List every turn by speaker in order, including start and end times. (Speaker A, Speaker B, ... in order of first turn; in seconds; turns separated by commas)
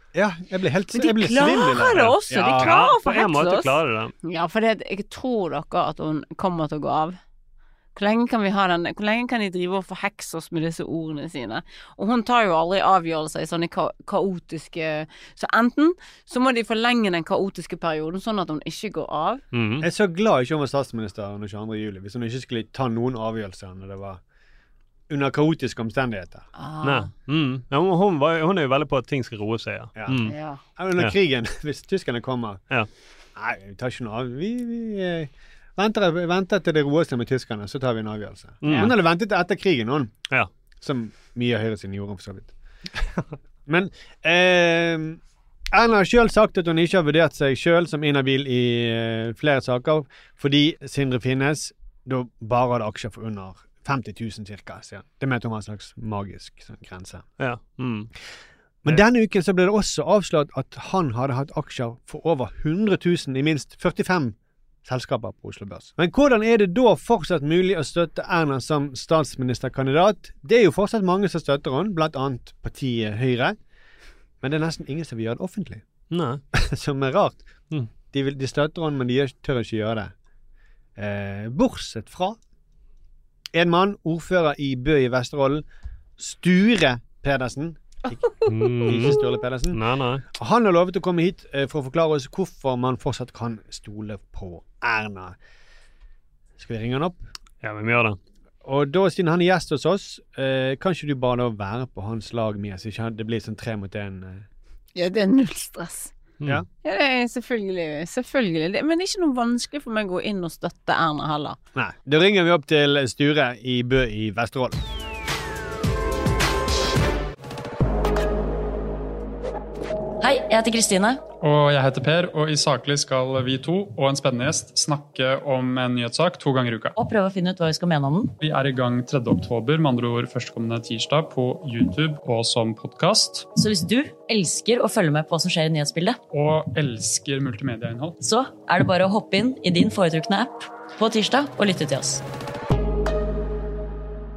Speaker A: 0.1-2.7, Speaker B: 0.9-7.2, Speaker C: 2.5-4.1, Speaker B: 7.9-19.4, Speaker C: 19.5-19.9, Speaker A: 19.8-24.2, Speaker A: 25.1-26.4, Speaker B: 26.5-27.1, Speaker C: 26.8-30.3, Speaker A: 30.0-32.6, Speaker B: 30.3-30.6, Speaker A: 33.3-40.2, Speaker C: 38.6-38.9, Speaker A: 40.8-42.5, Speaker A: 43.7-45.2, Speaker A: 45.7-57.2, Speaker C: 57.4-58.1, Speaker A: 58.8-73.6, Speaker A: 74.4-75.8, Speaker C: 76.1-76.4, Speaker A: 76.5-77.4, Speaker A: 78.1-80.1, Speaker A: 81.0-82.4, Speaker A: 83.5-85.6, Speaker A: 86.2-87.8, Speaker C: 88.5-90.2, Speaker A: 88.8-89.8, Speaker A: 90.3-95.3, Speaker A: 96.6-97.3, Speaker C: 97.6-98.2, Speaker A: 98.6-104.4, Speaker B: 104.9-106.1, Speaker B: 106.8-111.6, Speaker A: 111.7-114.8, Speaker D: 120.2-121.2, Speaker E: 121.4-126.9, Speaker D: 127.0-128.3, Speaker E: 128.4-133.5, Speaker D: 133.6-136.2, Speaker E: 136.3-138.2, Speaker D: 138.2-142.2